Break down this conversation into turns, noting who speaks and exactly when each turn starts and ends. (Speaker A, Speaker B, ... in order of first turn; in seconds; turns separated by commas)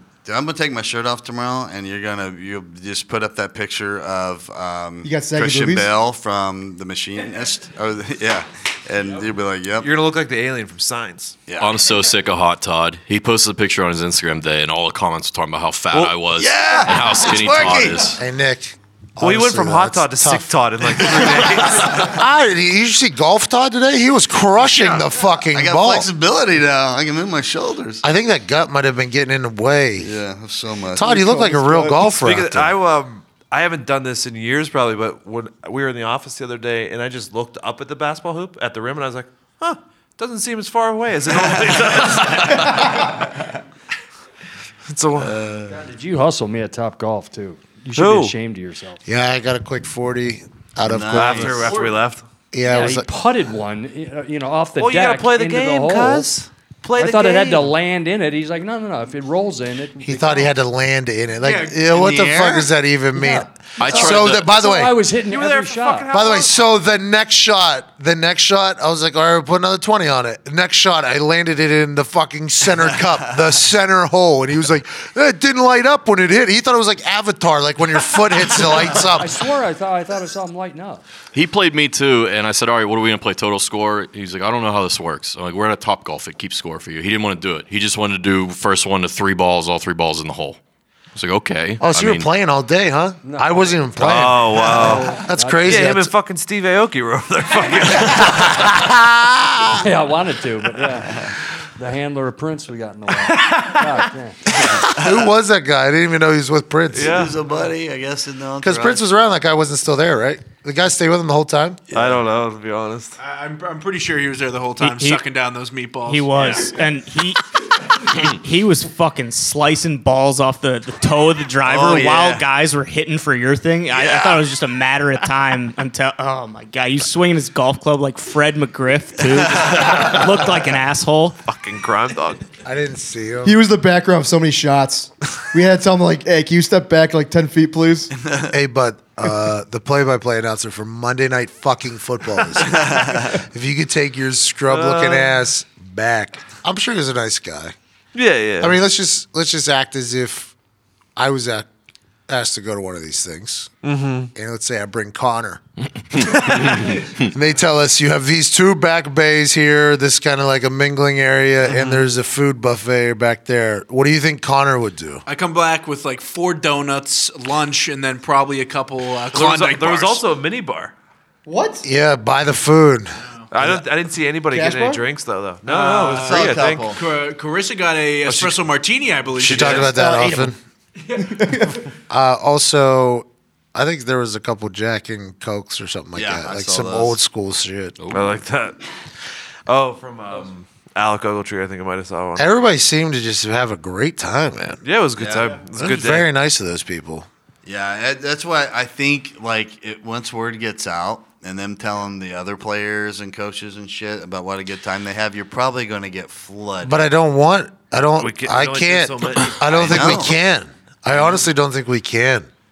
Speaker A: 0.2-9.9, Speaker B: 5.0-5.9, Speaker C: 9.8-11.4, Speaker A: 11.5-11.8, Speaker D: 11.6-18.2, Speaker A: 16.4-18.1, Speaker E: 18.2-20.5, Speaker C: 19.2-22.1, Speaker E: 21.8-26.1, Speaker A: 24.7-28.0, Speaker E: 28.0-30.1, Speaker A: 30.0-31.2, Speaker E: 30.9-32.7, Speaker C: 32.1-43.1, Speaker C: 44.9-45.4, Speaker A: 45.2-45.7, Speaker F: 45.7-49.0, Speaker C: 48.0-48.3, Speaker E: 49.0-51.8, Speaker A: 50.8-51.8, Speaker C: 51.1-52.2, Speaker E: 52.5-53.1, Speaker F: 52.6-56.3, Speaker C: 54.8-57.7, Speaker F: 57.0-60.4, Speaker E: 60.0-65.0, Speaker G: 61.4-61.8, Speaker A: 61.8-62.7, Speaker F: 63.1-66.1, Speaker D: 63.8-64.5, Speaker C: 65.2-66.6, Speaker E: 66.1-79.4, Speaker F: 79.1-81.0, Speaker D: 81.3-90.6, Speaker D: 91.2-92.3, Speaker E: 91.8-96.1, Speaker F: 93.2-93.7, Speaker C: 94.0-98.7, Speaker F: 94.6-95.9, Speaker E: 98.0-99.8, Speaker F: 99.8-104.4, Speaker C: 103.3-103.8, Speaker E: 104.9-107.3, Speaker A: 104.9-105.2, Speaker C: 106.9-107.3, Speaker A: 107.0-109.0, Speaker E: 108.6-111.8, Speaker A: 111.9-112.2, Speaker C: 111.9-113.2, Speaker G: 113.2-116.6, Speaker H: 114.8-115.2, Speaker H: 116.0-131.4, Speaker A: 121.7-122.5, Speaker A: 123.9-124.4, Speaker A: 129.5-130.1, Speaker C: 131.5-132.4, Speaker E: 132.7-133.6, Speaker B: 133.4-138.1, Speaker A: 138.2-138.5, Speaker E: 138.5-147.8, Speaker A: 142.7-143.3, Speaker C: 144.7-145.4, Speaker C: 148.1-148.8, Speaker E: 148.6-150.5, Speaker E: 151.2-151.7, Speaker E: 152.3-153.7, Speaker C: 153.8-154.3, Speaker E: 154.3-155.6, Speaker E: 156.1-165.2, Speaker C: 161.7-162.1, Speaker G: 165.3-170.2, Speaker C: 169.3-170.9, Speaker B: 171.5-171.8, Speaker E: 171.8-173.2, Speaker C: 173.5-176.9, Speaker B: 174.5-175.0, Speaker G: 175.7-180.1, Speaker A: 176.0-177.0, Speaker C: 178.3-178.6, Speaker E: 179.4-180.6, Speaker C: 179.5-179.9, Speaker B: 179.9-180.5, Speaker G: 181.1-181.3, Speaker B: 181.2-181.8, Speaker E: 182.1-188.0, Speaker A: 186.2-187.2, Speaker D: 188.0-188.4, Speaker C: 188.1-188.8, Speaker C: 189.7-192.5, Speaker E: 192.4-194.8, Speaker C: 194.8-196.3, Speaker A: 195.2-195.6, Speaker E: 195.8-197.3, Speaker A: 197.7-207.0, Speaker E: 206.8-212.5, Speaker C: 208.2-210.3, Speaker A: 209.8-210.4